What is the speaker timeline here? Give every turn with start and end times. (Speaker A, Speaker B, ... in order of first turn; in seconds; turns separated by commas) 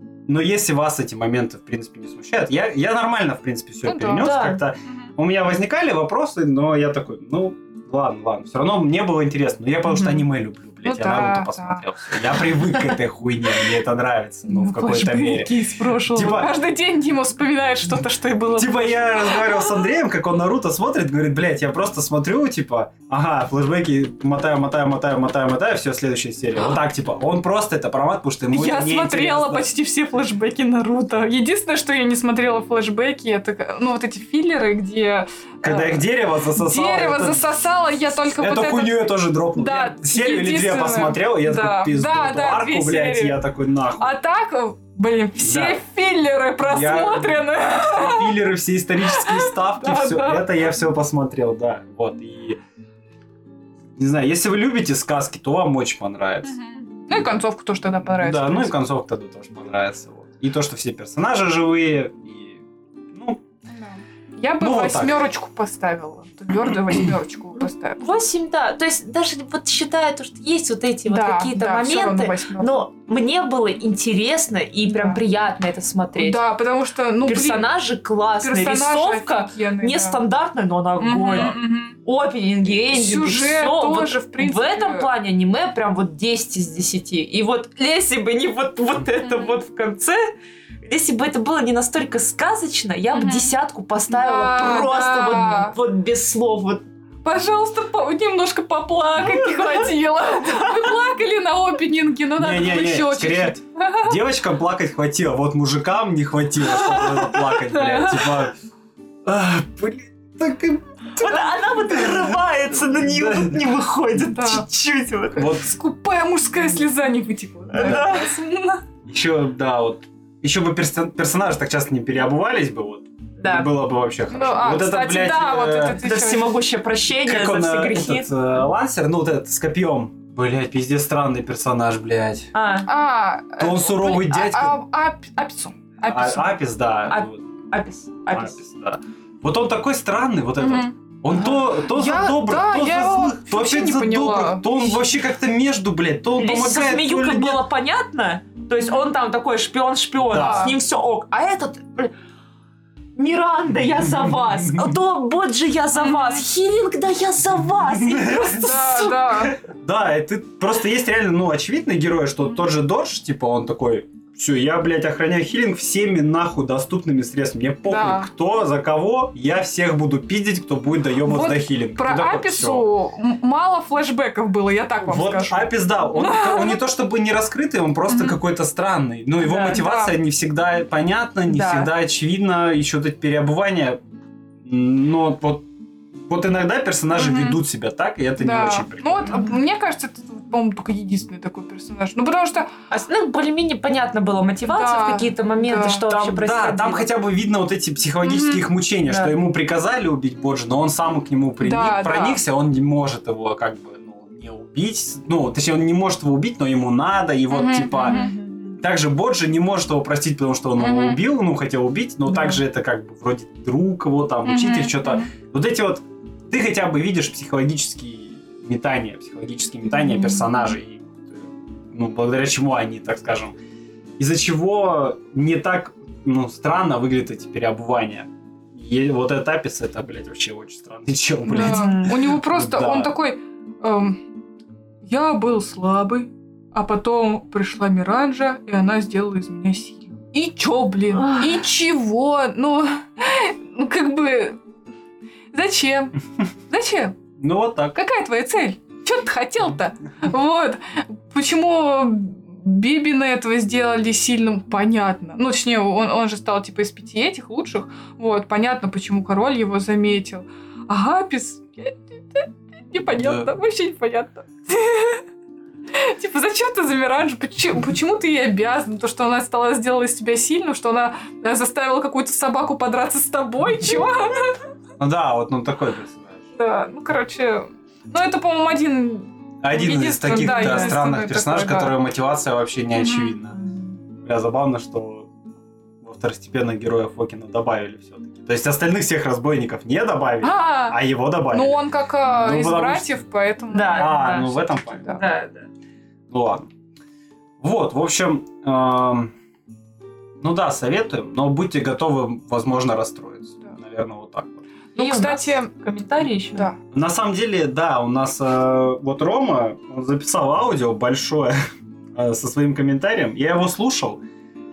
Speaker A: 0.3-15.5, Speaker B: 3.8-4.3, Speaker C: 4.2-4.6, Speaker B: 10.8-11.8, Speaker B: 14.5-19.8, Speaker A: 16.1-16.5, Speaker A: 18.5-29.7, Speaker B: 28.5-43.4, Speaker A: 35.6-37.5, Speaker A: 38.3-44.2, Speaker B: 44.0-48.4, Speaker A: 45.4-45.8, Speaker A: 46.6-52.6, Speaker B: 49.0-50.5, Speaker A: 54.0-56.6, Speaker B: 56.4-58.8, Speaker A: 58.0-62.6, Speaker A: 63.1-63.4, Speaker B: 63.7-68.0, Speaker A: 64.6-65.2, Speaker C: 68.0-76.4, Speaker B: 71.1-72.8, Speaker B: 74.9-75.2, Speaker B: 76.2-77.7, Speaker C: 77.3-90.3, Speaker B: 78.4-80.2, Speaker B: 81.0-82.0, Speaker B: 82.8-85.1, Speaker B: 89.2-89.6, Speaker C: 90.8-96.8, Speaker B: 93.1-93.5, Speaker B: 94.1-95.8, Speaker B: 97.2-104.1, Speaker C: 99.3-99.8, Speaker A: 102.3-108.5, Speaker B: 106.7-108.5, Speaker A: 109.2-113.8, Speaker C: 111.2-115.5, Speaker B: 114.3-114.7, Speaker A: 115.4-115.7, Speaker B: 115.4-118.8, Speaker C: 117.7-118.3, Speaker A: 117.8-118.1, Speaker A: 119.1-126.0, Speaker C: 123.4-123.7, Speaker B: 124.3-126.5, Speaker C: 126.0-128.3, Speaker A: 127.2-132.5, Speaker C: 132.5-132.9, Speaker B: 132.8-136.5, Speaker A: 133.6-134.8, Speaker A: 136.0-137.4, Speaker C: 137.1-138.5, Speaker A: 138.3-147.6, Speaker B: 140.6-140.9, Speaker B: 141.8-145.0, Speaker C: 146.4-152.1, Speaker A: 150.2-150.7, Speaker B: 150.3-150.8, Speaker C: 153.2-159.5, Speaker B: 155.9-156.4, Speaker A: 157.9-158.9, Speaker B: 158.6-159.6, Speaker A: 159.6-172.9, Speaker B: 167.9-168.3, Speaker B: 171.3-176.8, Speaker A: 175.0-184.0, Speaker B: 179.4-180.2, Speaker C: 179.4-179.8, Speaker B: 181.5-181.8, Speaker A: 184.7-185.7, Speaker A: 186.2-189.4, Speaker B: 187.2-187.6, Speaker B: 188.4-192.7, Speaker C: 192.9-197.1, Speaker B: 194.7-196.3, Speaker A: 196.2-208.2, Speaker B: 198.2-198.7, Speaker B: 201.6-202.4, Speaker B: 207.5-208.3, Speaker C: 208.0-208.8, Speaker A: 208.8-223.6, Speaker B: 210.8-211.2, Speaker C: 212.3-212.6, Speaker B: 214.4-215.3, Speaker C: 220.1-220.5, Speaker A: 224.2-233.1, Speaker B: 231.5-234.2, Speaker C: 231.5-232.2, Speaker B: 235.1-244.6, Speaker B: 245.5-246.2, Speaker B: 246.7-247.2, Speaker A: 247.4-248.0, Speaker B: 247.9-265.2, Speaker A: 263.0-263.5, Speaker B: 265.9-274.6, Speaker A: 275.0-276.4, Speaker B: 276.6-281.9, Speaker A: 279.6-283.6, Speaker C: 280.3-281.0, Speaker B: 282.9-283.4, Speaker A: 284.2-285.3, Speaker A: 286.0-293.2, Speaker B: 290.4-291.0, Speaker B: 291.5-295.2, Speaker C: 293.7-295.7, Speaker A: 293.9-295.2, Speaker A: 296.3-296.7, Speaker A: 297.6-299.3, Speaker A: 300.4-304.6, Speaker C: 304.9-306.7, Speaker B: 305.0-305.7, Speaker A: 306.9-311.6, Speaker A: 312.1-314.2